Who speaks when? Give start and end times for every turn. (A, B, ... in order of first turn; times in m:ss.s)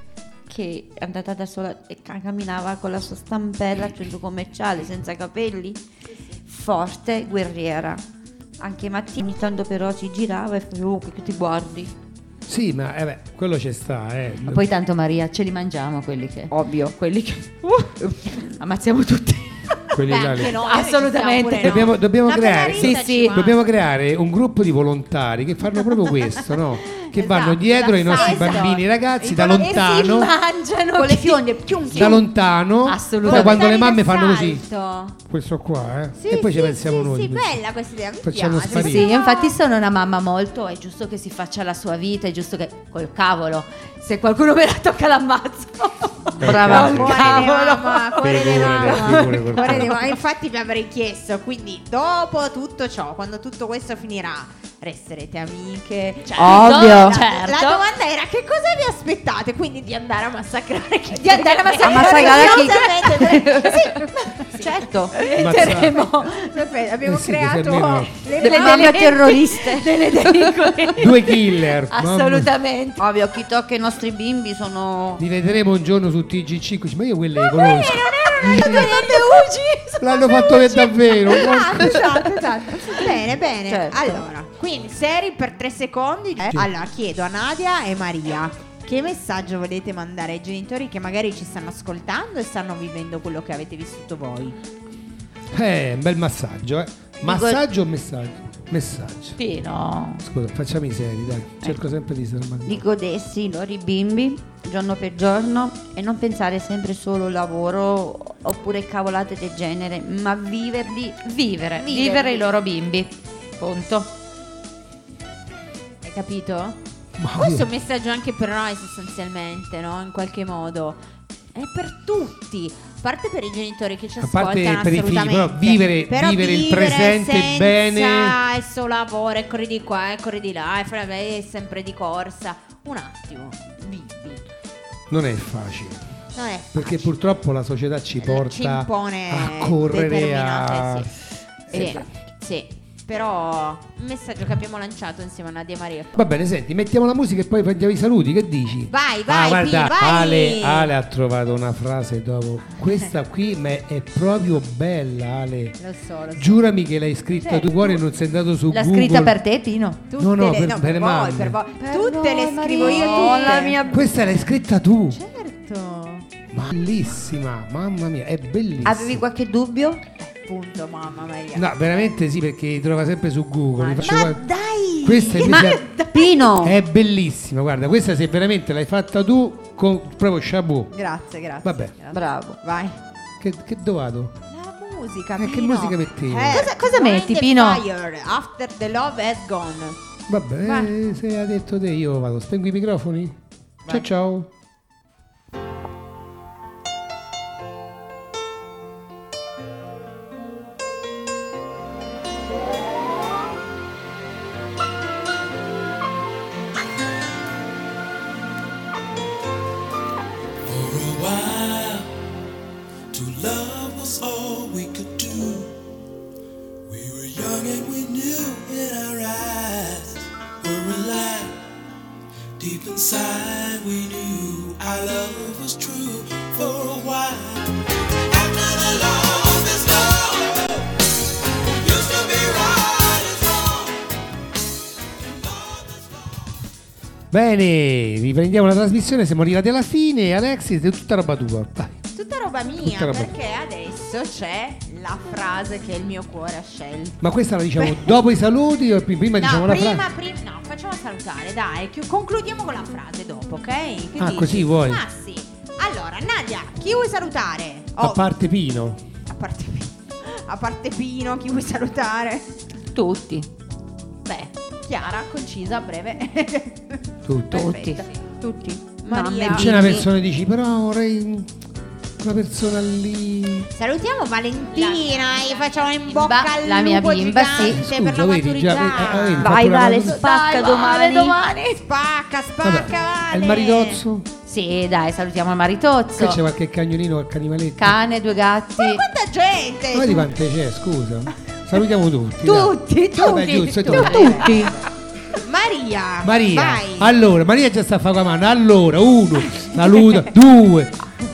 0:00.5-0:05.8 A
0:06.5-0:08.0 A
0:08.6-0:12.0 A
0:12.5-0:14.6 B
0:14.5-0:21.9 C
0:16.5-0:17.0 A
0:19.9-0:20.5 B
0:20.0-0:23.6 D
0:21.6-0:30.3 B
0:22.8-0:23.4 C
0:27.0-0:30.3 D
0:28.1-0:28.7 C
0:29.6-0:32.2 C
0:31.0-0:32.0 A
0:31.0-0:31.3 D
0:31.9-0:34.6 B
0:32.8-0:33.6 C
0:33.2-0:35.2 D
0:35.2-0:37.6 B
0:36.2-0:39.6 D
0:38.2-0:39.1 B
0:38.7-0:49.9 C
0:46.4-0:47.5 B
0:46.4-1:09.4 D
0:48.2-0:50.0 B
0:56.4-0:57.2 A
0:56.4-0:57.8 C
1:01.1-1:06.5 C
1:01.8-1:03.8 A
1:05.4-1:05.9 B
1:07.0-1:08.1 B
1:08.4-1:10.9 A
1:08.4-1:13.0 C
1:11.0-1:12.5 B
1:13.0-1:15.2 A
1:15.2-1:19.0 B
1:17.5-1:34.6 D
1:18.2-1:20.2 C
1:20.0-1:22.2 B
1:23.7-1:24.2 A
1:26.4-1:26.7 B
1:35.5-1:39.4 B
1:37.2-1:37.6 A
1:39.4-1:40.2 C
1:40.2-1:42.8 B
1:42.7-1:51.2 A
1:51.2-1:54.2 C
1:51.8-1:52.5 A
1:56.0-1:56.8 D
1:57.2-1:57.7 B
1:57.4-2:01.0 D
2:01.5-2:14.4 D
2:04.2-2:08.4 B
2:15.1-2:16.0 B
2:16.4-2:17.2 D
2:16.7-2:21.1 B
2:18.2-2:21.1 D
2:21.7-2:26.2 D
2:21.7-2:22.1 B
2:26.1-2:35.8 B
2:28.9-2:30.9 D
2:35.8-2:36.7 D
2:36.4-2:39.4 B
2:37.3-2:38.0 D
2:38.7-2:40.0 C
2:40.1-2:44.5 D
2:40.2-2:41.6 B
2:41.8-2:44.0 A
2:42.0-2:44.0 C
2:43.9-2:45.2 B
2:45.1-2:46.3 D
2:46.5-2:49.2 B
2:48.8-2:50.0 A
2:50.2-2:52.1 D
2:51.6-2:54.4 B
2:53.8-2:56.3 D
2:55.0-2:55.8 B
2:55.4-2:56.8 A
2:56.6-3:00.9 B
3:00.9-3:03.0 D
3:01.6-3:01.9 B
3:02.1-3:02.6 A
3:03.4-3:04.4 B
3:04.5-3:10.0 D
3:05.4-3:06.7 B
3:06.5-3:07.8 C
3:10.3-3:14.5 B
3:10.6-3:10.9 D
3:30.6-3:32.1 E
3:33.1-3:35.8 E
3:36.9-3:41.6 E
3:42.6-3:50.9 E
3:51.8-3:54.0 E
3:55.2-3:56.3 E
3:57.3-4:02.0 B
4:02.1-4:07.2 D
4:02.8-4:03.3 B
4:07.2-4:10.1 B
4:07.8-4:08.2 D
4:09.4-4:18.3 D
4:14.2-4:15.0 B
4:18.0-4:19.0 B
4:19.3-4:22.5 D
4:22.9-4:23.5 C
4:24.3-4:27.0 D
4:27.2-4:27.8 B
4:27.5-4:28.0 C
4:27.6-4:30.0 D
4:29.1-4:30.1 A
4:29.5-4:31.5 B
4:32.2-4:33.7 B
4:33.7-4:39.6 D
4:34.7-4:37.8 C
4:37.6-4:40.2 B
4:39.4-4:41.4 A
4:40.0-4:41.8 C
4:41.8-4:44.0 D
4:42.6-4:44.3 B
4:44.5-4:46.4 C
4:46.2-4:48.0 B
4:47.8-4:49.0 C
4:48.8-4:50.3 D
4:49.9-4:54.5 B
4:52.4-4:54.7 C
4:54.0-4:54.8 A
4:54.0-4:54.5 D
4:55.4-4:57.1 D
4:56.2-5:01.0 B